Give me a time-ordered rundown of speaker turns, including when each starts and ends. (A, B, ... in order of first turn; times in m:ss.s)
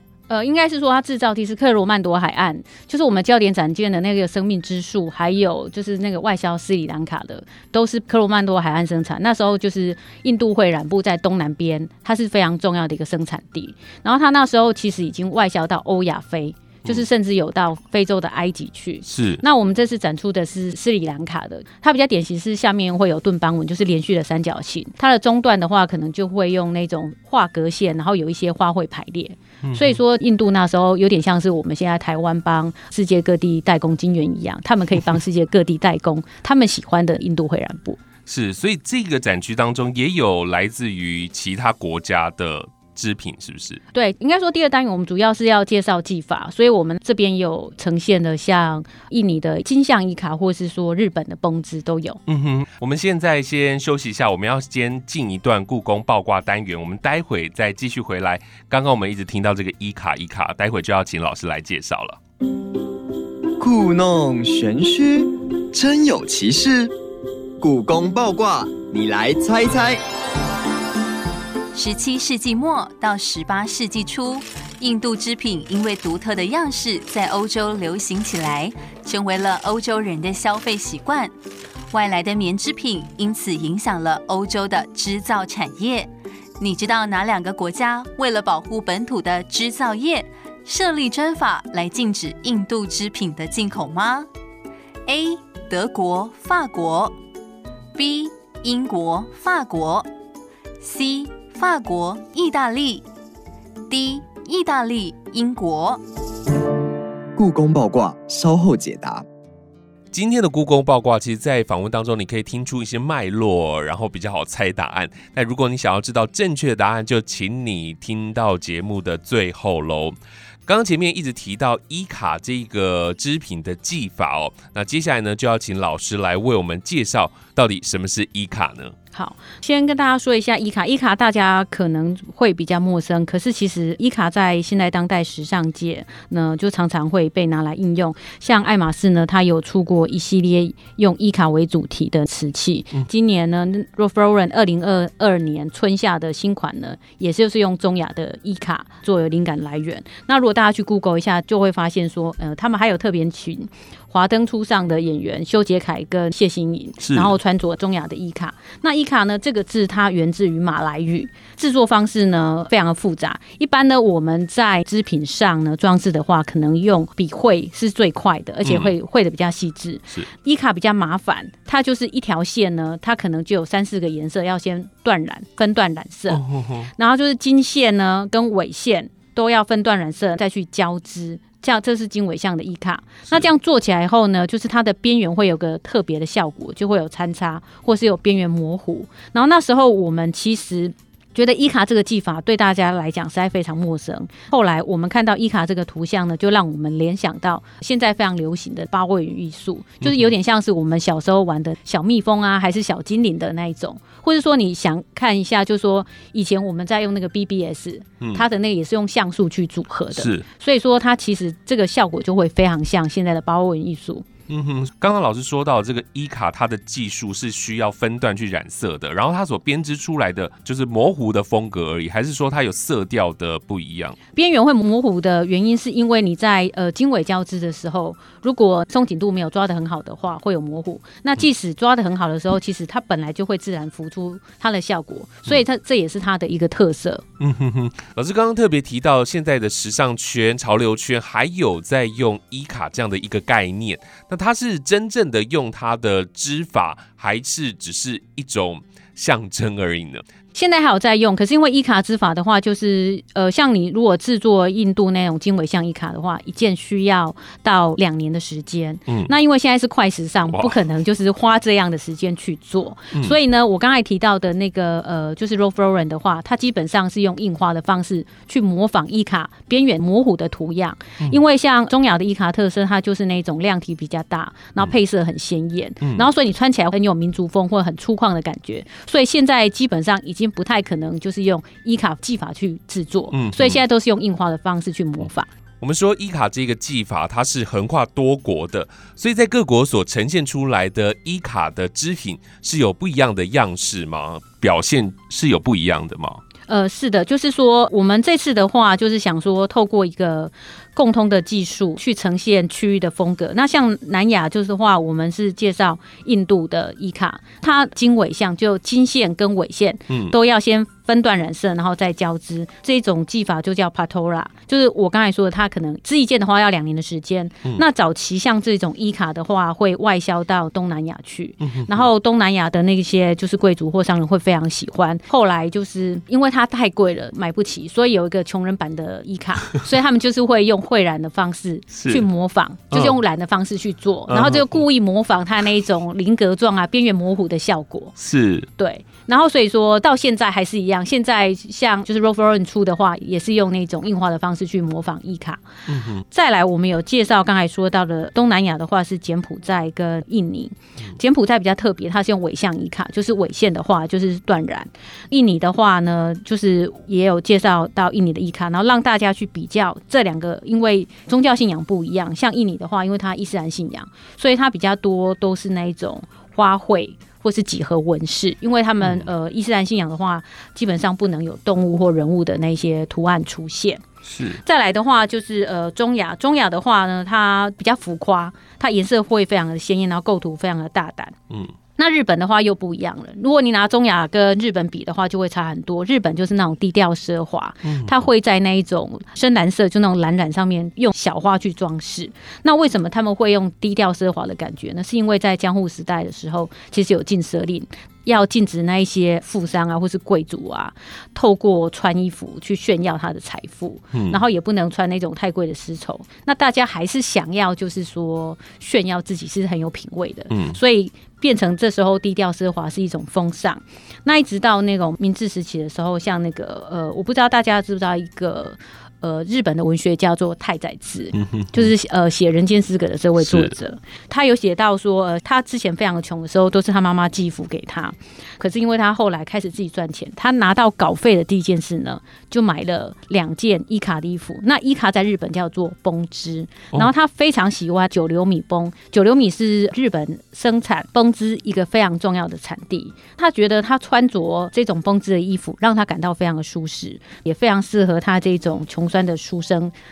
0:00.3-0:38.0 A
0:19.1-0:19.4 B
0:29.6-0:30.0 B
0:38.2-0:43.8 B
0:43.9-0:52.2 A
0:52.3-1:02.2 B
1:03.6-1:06.9 C
1:07.6-1:10.0 C
1:11.7-1:21.3 D
1:21.9-1:34.3 D
1:35.0-1:37.2 D
1:37.9-1:40.1 D
1:40.8-1:43.0 D
1:43.9-1:46.0 D
1:47.4-1:49.2 C
1:50.1-2:08.9 B
2:09.1-2:56.4 A
2:37.0-2:37.4 B
2:48.6-2:48.9 B
2:56.3-2:56.9 B
2:56.9-3:34.2 A
3:20.0-3:20.3 B
3:30.1-3:30.4 B
3:34.5-3:44.2 B
3:44.3-3:57.2 A
3:57.4-4:10.2 B
4:10.5-4:45.5 A
4:19.1-4:19.3 B
4:43.3-4:43.8 B
4:45.8-4:56.4 B
4:56.7-5:38.2 A
5:21.6-5:22.0 B
5:31.9-5:32.2 B
5:32.9-5:33.2 B
5:34.3-5:34.8 B
5:38.2-5:38.7 B
5:38.8-5:45.6 A
5:45.9-5:46.2 B
5:46.3-6:14.0 A
6:09.0-6:09.3 B
6:14.2-6:14.6 B
6:14.6-6:21.4 A
6:22.0-7:29.9 A
6:27.8-6:28.1 B
6:44.1-6:44.4 B
6:50.5-6:50.8 B
7:01.4-7:01.8 B
7:03.4-7:03.7 B